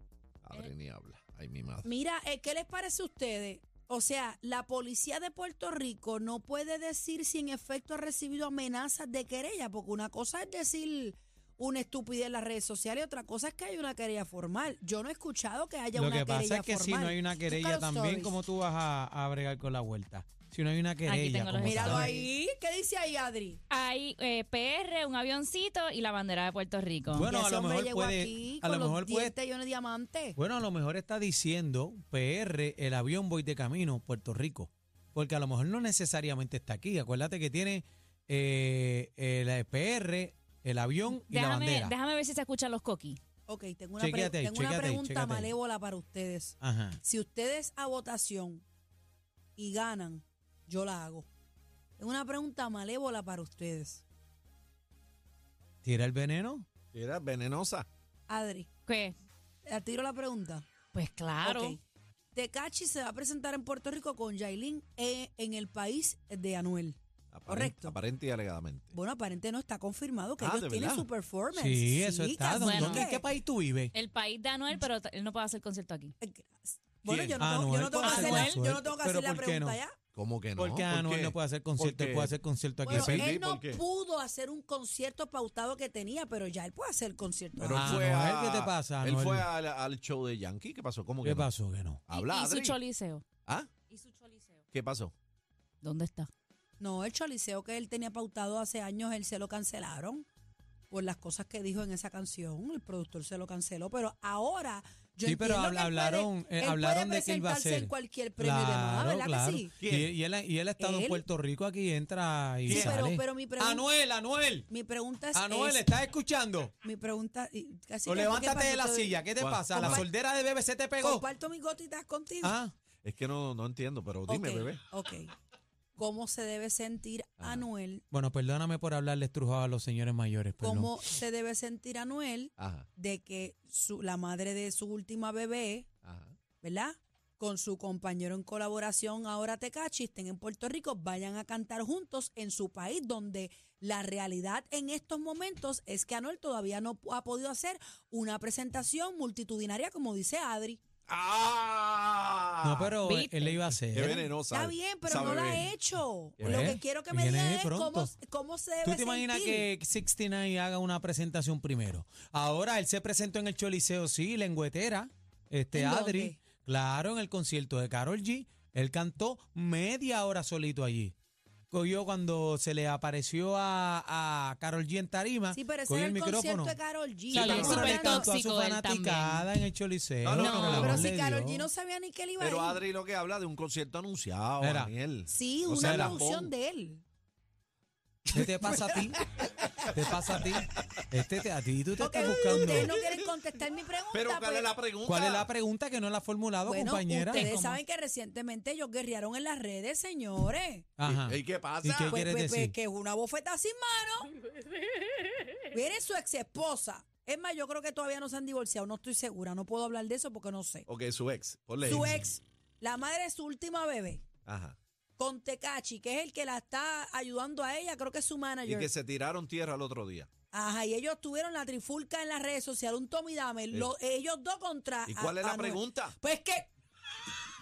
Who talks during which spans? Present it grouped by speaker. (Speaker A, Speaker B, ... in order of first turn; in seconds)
Speaker A: 0.4-1.9, 56.9-57.9, 67.3-69.0, 70.4-71.1, 80.1-83.8, 87.6-91.5, 92.1-92.8, 94.7-95.1, 109.8-110.1, 112.7-113.0, 119.4-120.0, 123.0-124.8, 127.4-127.7, 132.6-132.9, 136.1-136.3, 151.1-153.0, 153.9-155.7, 156.4-156.8, 177.4-177.7, 180.2-181.1, 182.4-186.5, 192.7-193.1, 194.1-195.5, 201.1-202.2, 210.9-212.2, 214.5-214.8, 218.7-220.3, 225.1-226.2
Speaker B: 1.8-18.4, 21.6-23.6, 27.2-30.4, 43.5-48.6, 49.6-51.3, 52.0-54.0, 58.3-58.7, 59.7-60.6, 61.4-61.8, 62.3-68.0, 68.9-73.3, 76.2-80.0, 82.8-88.0, 96.8-100.3, 100.9-109.7, 110.8-111.2, 112.7-113.9, 114.7-116.0, 116.8-119.2, 119.7-120.1, 121.0-122.6, 124.3-125.3, 126.0-128.0, 130.6-135.9, 136.6-150.8, 154.5-159.7, 165.7-166.4, 175.5-178.3, 180.4-182.8, 185.3-187.0, 188.3-189.8, 192.0-194.7, 196.6-200.9, 202.1-204.3, 205.7-210.9, 211.8-214.2, 215.2-218.9, 220.5-226.7
Speaker C: 15.9-22.1, 27.1-29.4, 30.4-42.0, 44.0-45.5, 46.6-47.0, 55.8-56.7, 71.5-73.9, 77.0-79.8, 80.6-83.3, 87.7-89.5, 91.2-92.0, 105.3-114.7, 115.3-116.7, 118.1-121.2, 122.4-122.7, 128.1-130.9, 152.6-154.3, 156.4-158.1, 158.8-171.1, 171.7-176.8, 177.3-181.7, 184.6-184.9, 185.8-186.2, 188.3-189.2, 189.9-192.9, 195.1-197.5, 201.0-202.8
Speaker D: 21.1-22.3, 23.7-27.3, 41.1-43.2, 58.9-59.2, 60.9-61.8, 72.5-73.1, 73.9-76.1, 77.9-78.6, 92.1-93.2, 93.9-94.6, 95.8-96.3, 153.0-153.7, 177.3-179.5, 180.3-181.0, 197.3-197.8